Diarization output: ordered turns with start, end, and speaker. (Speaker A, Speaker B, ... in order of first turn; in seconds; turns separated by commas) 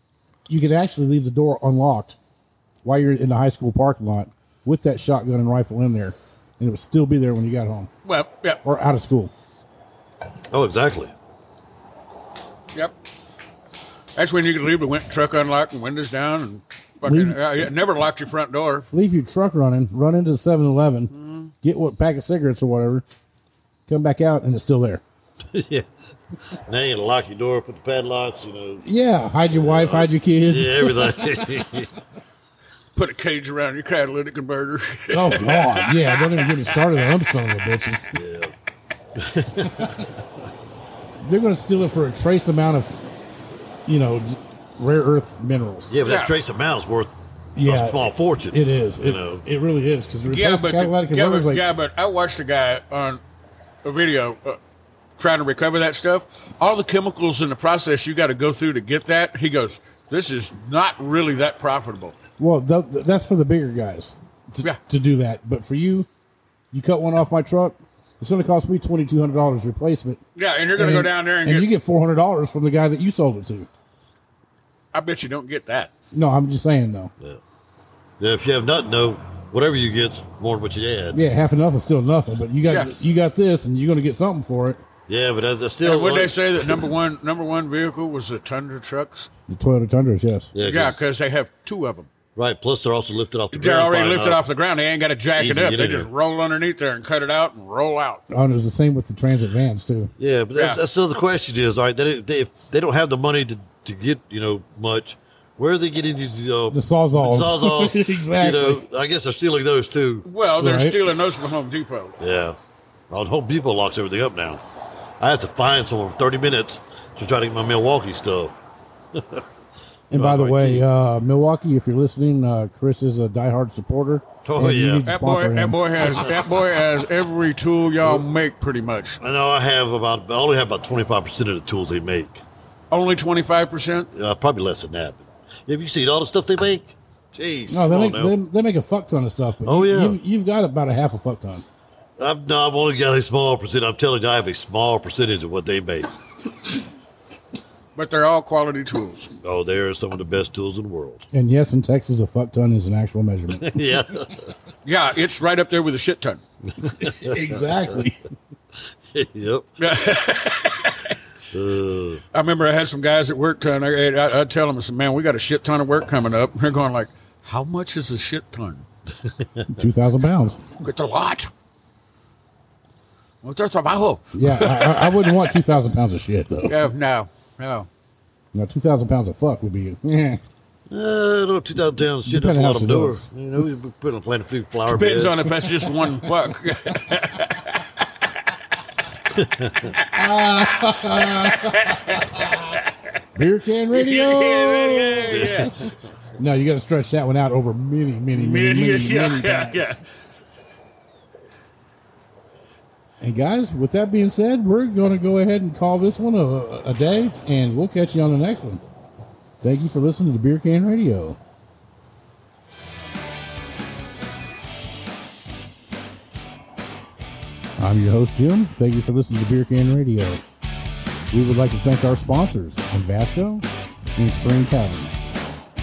Speaker A: 0.5-2.2, Speaker A: 2.8-7.9, Speaker B: 8.0-8.6, Speaker A: 8.6-9.3, Speaker C: 10.5-11.1, Speaker B: 14.1-18.9, Speaker A: 17.0-17.7, Speaker A: 18.9-23.0, Speaker B: 21.1-21.5, Speaker A: 23.9-25.0, Speaker C: 25.5-25.8, Speaker C: 26.7-28.8, Speaker A: 28.8-31.4, Speaker C: 29.5-31.9, Speaker B: 32.9-37.3, Speaker A: 35.1-38.1, Speaker C: 38.1-38.5, Speaker C: 39.2-40.0, Speaker A: 41.2-43.0, Speaker A: 43.9-45.9, Speaker C: 45.9-47.1, Speaker B: 46.0-46.3, Speaker A: 47.5-51.6, Speaker C: 47.6-49.4, Speaker B: 50.2-53.2, Speaker B: 53.8-54.6, Speaker B: 55.2-62.1, Speaker A: 62.4-66.1, Speaker A: 66.7-70.2, Speaker B: 70.3-71.7, Speaker A: 70.7-73.7, Speaker B: 74.9-75.9, Speaker A: 76.1-77.1, Speaker C: 78.2-81.2, Speaker A: 81.1-84.8, Speaker B: 82.6-82.9, Speaker C: 85.1-86.9, Speaker B: 85.8-89.3, Speaker A: 89.5-90.5, Speaker C: 90.5-91.0, Speaker B: 90.6-92.1, Speaker C: 92.3-94.4, Speaker B: 93.5-98.2, Speaker C: 95.3-96.1, Speaker A: 98.3-100.1, Speaker C: 100.2-110.2, Speaker B: 100.5-100.8, Speaker A: 106.7-108.8, Speaker B: 110.2-112.1, Speaker A: 110.6-111.0, Speaker C: 112.2-112.5, Speaker C: 113.1-114.6, Speaker C: 115.2-118.5, Speaker C: 119.1-119.4, Speaker C: 120.1-120.8, Speaker A: 120.1-125.8, Speaker C: 124.4-125.1, Speaker B: 125.0-129.2, Speaker C: 126.0-126.3, Speaker C: 128.0-128.3, Speaker C: 129.2-132.4, Speaker B: 132.9-134.1, Speaker C: 134.1-138.3, Speaker A: 137.7-141.6, Speaker C: 139.6-140.2, Speaker C: 142.2-146.1, Speaker B: 147.9-149.3, Speaker C: 149.4-151.2, Speaker A: 151.3-153.8, Speaker C: 153.6-154.4, Speaker B: 154.8-156.4, Speaker C: 156.9-157.7, Speaker A: 157.0-158.2, Speaker C: 159.1-159.7, Speaker B: 159.8-161.1, Speaker C: 161.5-162.2, Speaker B: 162.3-168.8, Speaker A: 169.7-170.6, Speaker B: 170.8-171.5, Speaker B: 173.4-175.6, Speaker A: 174.3-176.8, Speaker B: 176.7-177.9, Speaker A: 178.5-180.4, Speaker C: 180.9-185.5, Speaker A: 182.2-183.3, Speaker B: 184.9-188.1, Speaker A: 185.7-186.3, Speaker C: 189.4-189.9, Speaker B: 189.9-190.2, Speaker A: 190.1-192.2, Speaker B: 190.8-192.8, Speaker A: 193.3-195.7, Speaker B: 193.9-195.7, Speaker C: 195.3-195.7, Speaker A: 196.4-199.9, Speaker B: 198.3-200.0, Speaker A: 203.2-208.8, Speaker A: 209.6-211.4, Speaker A: 217.8-220.4, Speaker A: 221.3-225.1